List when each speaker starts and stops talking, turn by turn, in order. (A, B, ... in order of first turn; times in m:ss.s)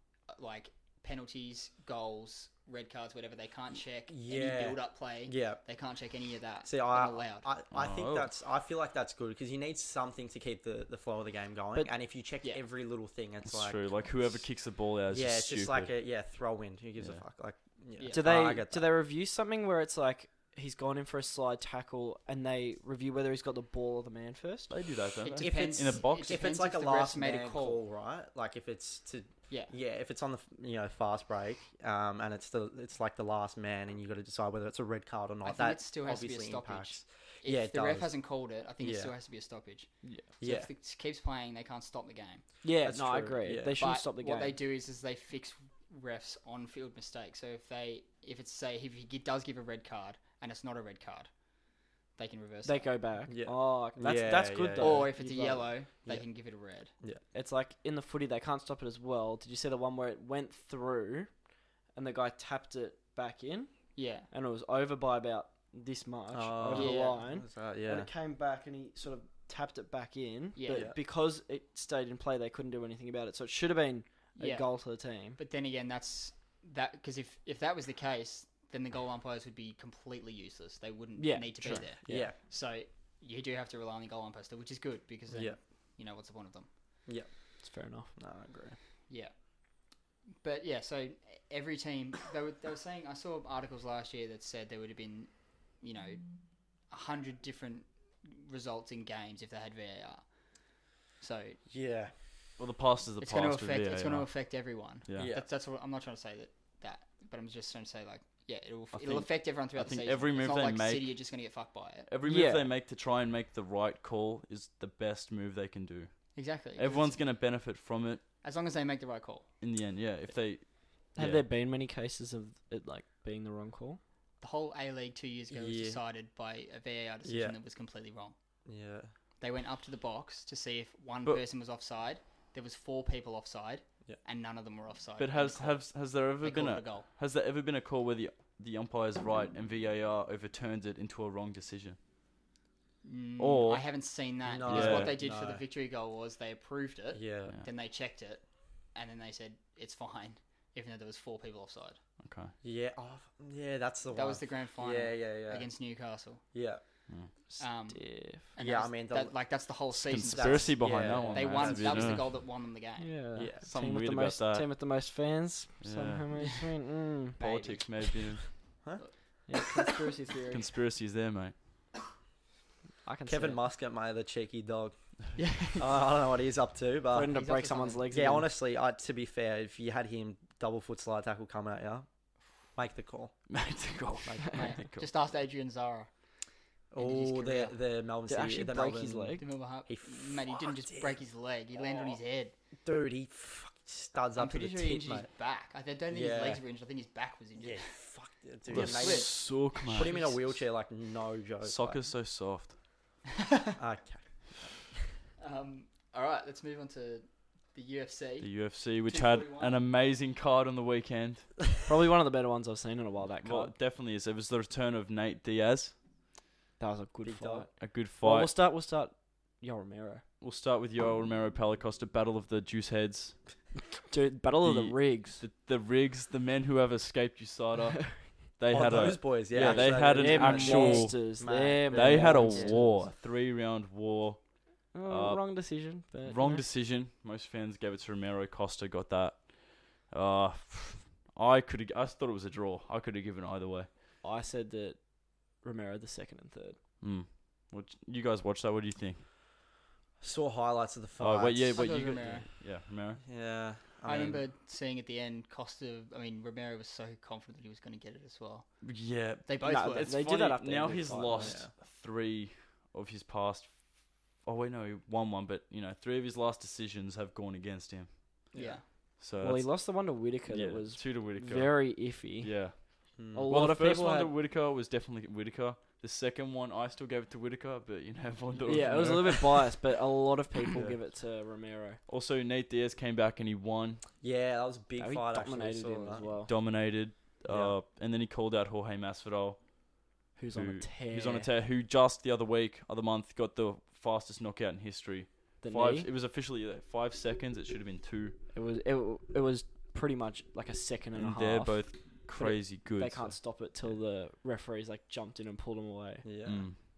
0:00.3-0:07.5 A
0:04.1-0:05.6 B
0:06.6-0:14.4 B
0:07.7-0:08.3 C
0:13.4-0:15.9 C
0:15.1-0:18.9 B
0:18.0-0:18.3 A
0:18.1-0:24.8 D
0:24.7-0:26.4 C
0:25.2-0:27.8 A
0:25.4-0:38.1 B
0:35.4-0:42.4 A
0:38.8-0:39.1 B
0:40.4-0:40.7 B
0:42.6-0:44.6 D
0:42.8-0:43.8 B
0:43.8-0:51.3 A
0:52.1-0:53.0 A
0:52.6-0:55.7 D
0:53.3-0:55.1 B
0:54.8-0:56.9 A
0:57.3-1:01.4 D
1:01.9-1:15.4 D
1:04.0-1:04.3 A
1:06.3-1:08.1 B
1:06.7-1:07.2 A
1:10.6-1:10.9 A
1:10.7-1:11.0 B
1:14.4-1:26.7 A
1:21.2-1:22.3 D
1:22.0-1:22.4 B
1:25.3-1:25.6 B
1:27.1-1:27.3 B
1:27.6-1:28.1 D
1:28.2-1:28.8 B
1:29.1-1:29.8 A
1:30.4-1:40.3 A
1:41.1-1:41.6 A
1:41.7-1:42.1 B
1:42.6-1:44.3 C
1:43.2-1:52.1 A
1:45.1-1:45.3 C
1:45.2-1:45.5 B
1:48.9-1:51.2 C
1:52.1-1:58.2 C
1:52.2-1:52.7 D
1:56.4-1:57.2 A
1:58.4-1:59.5 A
1:59.6-2:01.4 C
2:01.1-2:04.0 D
2:04.4-2:08.4 A
2:05.5-2:06.0 B
2:07.2-2:07.6 B
2:08.7-2:09.1 B
2:09.4-2:17.1 A
2:15.2-2:22.0 C
2:23.0-2:32.0 A
2:23.4-2:23.8 C
2:24.4-2:25.6 B
2:24.7-2:25.1 C
2:27.1-2:27.6 B
2:32.2-2:32.5 C
2:32.6-2:35.7 B
2:34.1-2:36.4 A
2:36.5-2:36.8 B
2:37.5-2:38.5 D
2:37.6-2:43.2 A
2:38.6-2:39.4 B
2:40.0-2:42.3 C
2:40.3-2:42.2 B
2:41.1-2:41.4 D
2:43.0-2:47.8 D
2:43.4-2:43.6 B
2:43.6-2:44.7 C
2:45.8-2:46.3 C
2:47.4-2:48.8 C
2:49.5-2:50.7 D
2:50.5-2:51.5 C
2:53.0-2:53.6 D
2:53.3-2:55.0 B
2:55.4-2:55.9 A
2:55.7-2:57.4 B
2:57.1-2:58.5 D
2:57.2-2:58.1 A
2:58.1-3:02.1 B
3:02.8-3:03.5 B
3:03.5-3:05.1 C
3:04.2-3:04.6 B
3:04.5-3:06.1 A
3:06.9-3:11.2 B
3:07.0-3:07.8 A
3:08.3-3:09.4 D
3:09.4-3:12.5 A
3:11.7-3:12.2 B
3:12.8-3:15.3 B
3:14.4-3:17.9 A
3:16.1-3:16.6 B
3:17.6-3:22.0 B
3:18.7-3:20.2 C
3:18.7-3:20.6 A
3:21.6-3:22.8 C
3:23.8-3:24.9 B
3:25.4-3:29.8 A
3:28.4-3:31.5 C
3:31.8-3:33.7 D
3:33.4-3:36.0 C
3:36.8-3:40.2 D
3:37.2-3:37.7 B
3:37.8-3:38.5 C
3:40.4-3:43.4 C
3:44.1-3:45.4 D
3:44.6-4:03.9 C
3:48.7-3:53.0 B
3:49.6-3:53.1 D
3:54.9-3:56.6 D
4:04.2-4:06.8 D
4:07.0-4:09.2 C
4:10.2-4:12.4 B
4:11.2-4:13.2 C
4:11.7-4:12.5 A
4:13.2-4:14.4 B
4:14.0-4:18.7 A
4:18.8-4:23.9 C
4:19.5-4:20.2 A
4:19.6-4:21.6 D
4:21.4-4:21.7 B
4:24.4-4:28.4 C
4:28.5-4:28.8 B
4:28.5-4:28.8 A
4:29.2-4:29.8 C
4:29.4-4:32.8 D
4:30.5-4:39.6 C
4:33.2-4:33.5 B
4:33.3-4:34.3 D
4:38.6-4:42.0 D
4:42.1-4:44.0 C
4:44.2-4:46.3 B
4:45.0-4:46.5 D
4:46.5-4:49.8 C
4:47.5-4:47.8 B
4:50.4-4:51.5 D
4:50.5-4:58.4 C
4:55.6-4:56.1 D
4:58.5-5:06.3 D
5:01.2-5:03.4 C
5:06.2-5:06.7 B
5:06.5-5:06.8 C